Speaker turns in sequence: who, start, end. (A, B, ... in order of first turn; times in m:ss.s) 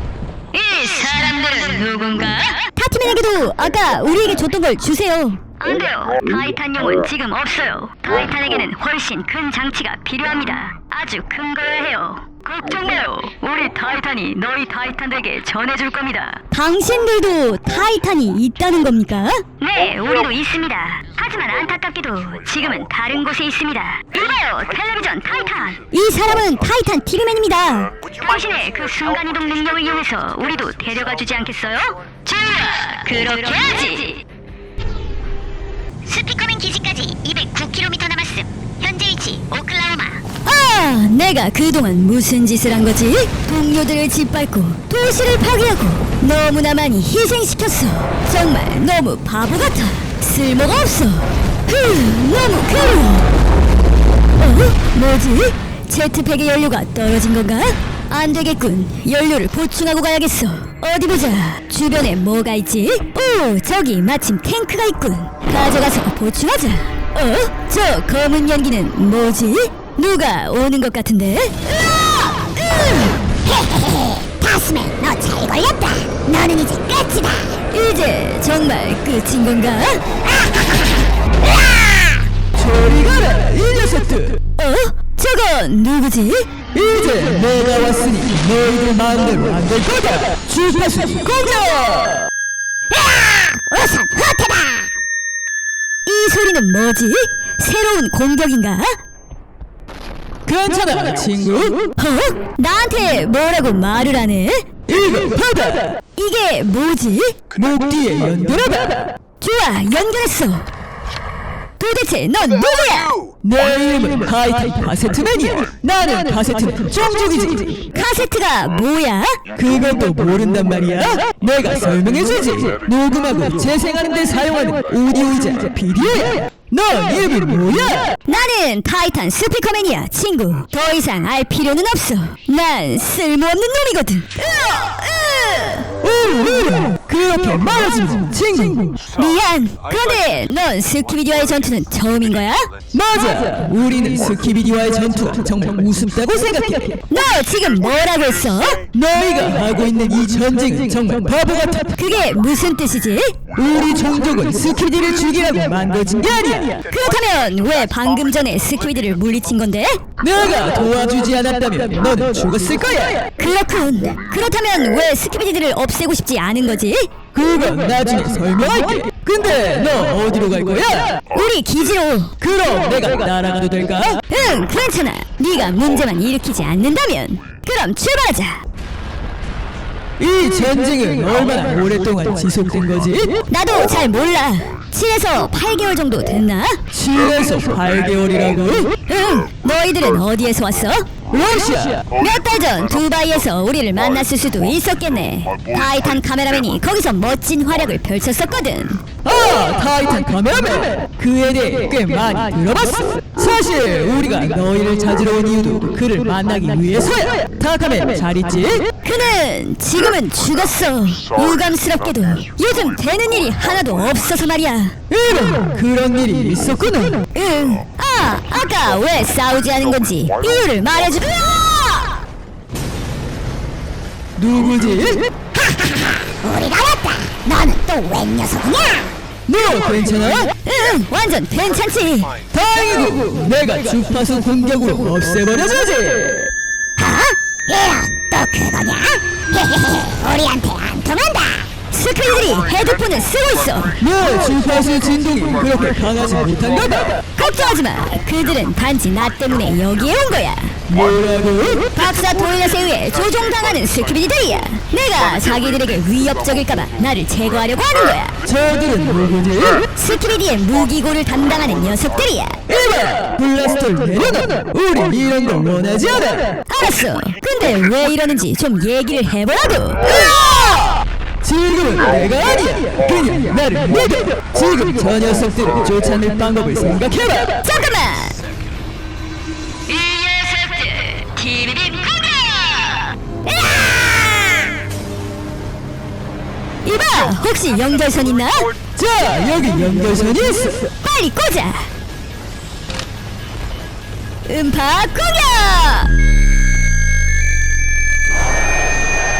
0:00.5-0:34.2 A
0:36.0-0:40.2 B
0:40.4-0:53.3 A
0:54.4-1:13.1 A
1:13.4-1:17.6 B
1:17.7-1:20.0 A
1:22.5-1:24.4 C
1:24.6-1:26.5 A
1:26.7-1:31.2 C
1:31.2-1:32.2 A
1:32.9-1:34.9 B
1:36.0-1:38.9 A
1:40.4-1:41.9 C
1:41.9-1:44.7 A
1:44.9-1:45.9 C
1:46.2-1:47.4 A
1:47.5-1:49.0 C
1:49.4-1:50.7 A
1:51.8-1:53.2 A
1:53.4-1:57.8 C
1:57.9-1:59.4 A
1:59.6-2:08.2 C
2:08.2-2:15.9 A
2:16.0-2:19.0 C
2:19.1-2:22.6 A
2:22.9-2:27.0 C
2:27.1-2:28.8 A
2:28.9-2:31.9 C
2:31.9-2:33.4 A
2:33.5-2:36.8 C
2:36.9-2:40.0 A
2:40.2-2:43.3 C
2:43.4-2:47.1 A
2:47.3-2:51.2 C
2:51.3-2:52.4 A
2:52.4-2:54.2 C
2:54.3-2:58.6 A
3:00.2-3:03.4 C
3:03.5-3:06.8 A
3:06.9-3:08.9 C
3:09.1-3:11.1 A
3:11.3-3:12.0 C
3:12.2-3:19.0 A
3:19.2-3:28.9 C
3:29.0-3:35.0 A
3:35.1-3:37.2 C
3:37.3-3:42.2 A
3:44.4-3:45.3 C
3:46.3-3:49.1 B
3:49.5-3:50.5 C
3:50.6-3:52.4 A
3:52.5-3:56.4 C
3:57.1-4:01.7 B
4:01.9-4:04.0 A
4:04.0-4:07.2 C
4:07.3-4:10.8 A
4:10.9-4:11.9 C
4:11.9-4:18.4 A
4:18.4-4:19.9 C
4:19.9-4:22.6 A
4:22.7-4:26.6 C
4:26.7-4:30.6 A
4:31.4-4:37.6 C
4:37.6-4:38.4 A
4:39.9-4:44.6 A
4:46.8-4:48.7 A
4:48.9-4:50.9 C
4:50.9-4:51.9 A
4:54.4-4:56.1 A